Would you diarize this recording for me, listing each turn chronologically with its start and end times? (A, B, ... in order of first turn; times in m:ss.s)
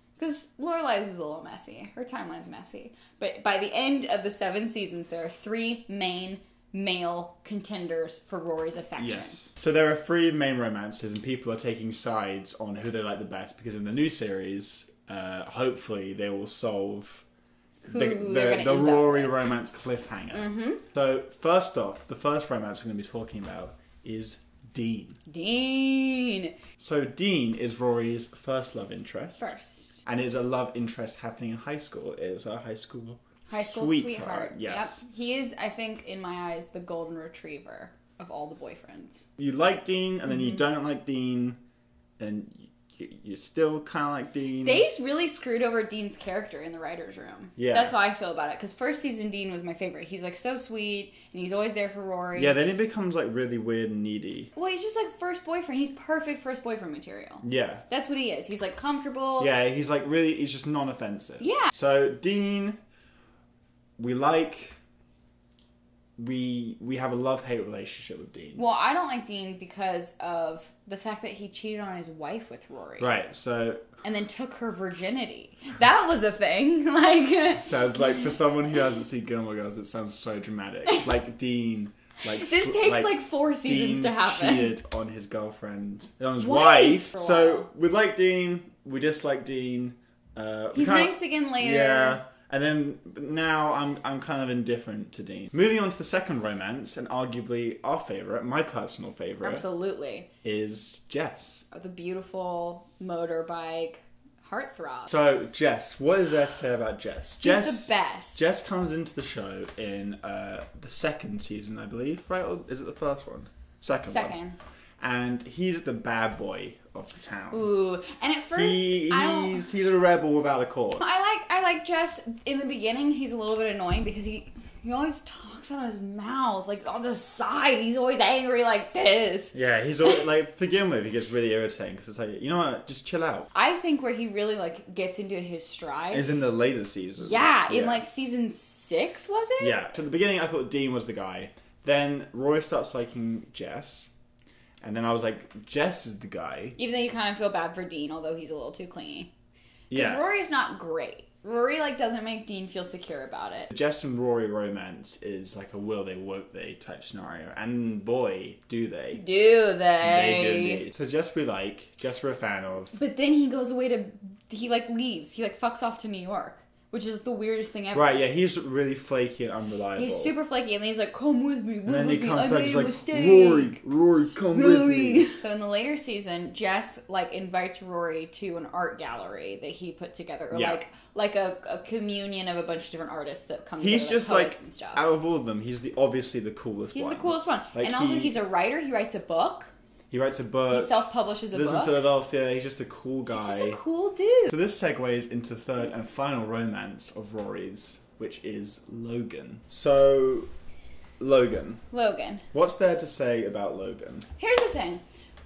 0:00.2-0:09.4 A
0:09.0-0:17.2 B
0:17.8-0:25.2 B
0:17.9-0:19.5 A
0:20.3-0:20.8 A
0:25.2-0:26.6 A
0:26.8-0:29.5 B
0:29.4-0:30.0 A
0:30.0-0:35.0 B
0:33.5-0:39.3 A
0:39.4-0:41.6 B
0:42.2-0:44.9 B
0:44.6-0:52.5 A
0:47.6-0:47.9 B
0:52.4-0:54.5 B
0:54.5-0:59.5 A
0:57.4-0:57.8 B
0:59.4-1:02.8 B
1:01.4-1:01.7 A
1:04.0-1:04.8 B
1:06.2-1:08.6 B
1:08.6-1:13.1 A
1:13.0-1:13.9 B
1:14.0-1:18.2 A
1:17.6-1:39.7 B
1:22.2-1:24.7 A
1:26.4-1:27.7 A
1:30.7-1:32.2 A
1:39.4-1:40.3 A
1:40.4-1:41.7 B
1:41.7-1:45.1 A
1:45.1-1:54.4 B
1:47.4-1:48.4 A
1:54.0-1:54.6 A
1:55.0-1:57.7 B
1:57.5-1:59.7 A
1:58.5-2:01.0 B
2:01.0-2:10.2 A
2:09.5-2:13.5 B
2:13.5-2:16.2 A
2:16.1-2:18.0 B
2:17.2-2:19.8 A
2:19.6-2:24.1 B
2:24.8-2:26.8 B
2:26.8-2:29.3 A
2:29.9-2:30.2 B
2:29.9-2:33.7 A
2:33.7-2:39.2 B
2:39.1-2:40.8 A
2:40.0-2:42.9 B
2:42.9-2:48.2 A
2:47.9-2:50.3 B
2:49.9-2:53.8 A
2:51.8-2:55.4 B
2:54.5-3:05.0 A
3:00.5-3:00.8 B
3:03.8-3:08.4 B
3:06.9-3:09.7 A
3:10.1-3:13.8 B
3:10.7-3:11.9 A
3:13.3-3:14.5 A
3:14.5-3:20.5 B
3:21.2-3:21.8 B
3:21.9-3:22.5 A
3:22.5-3:24.3 B
3:24.4-3:25.0 A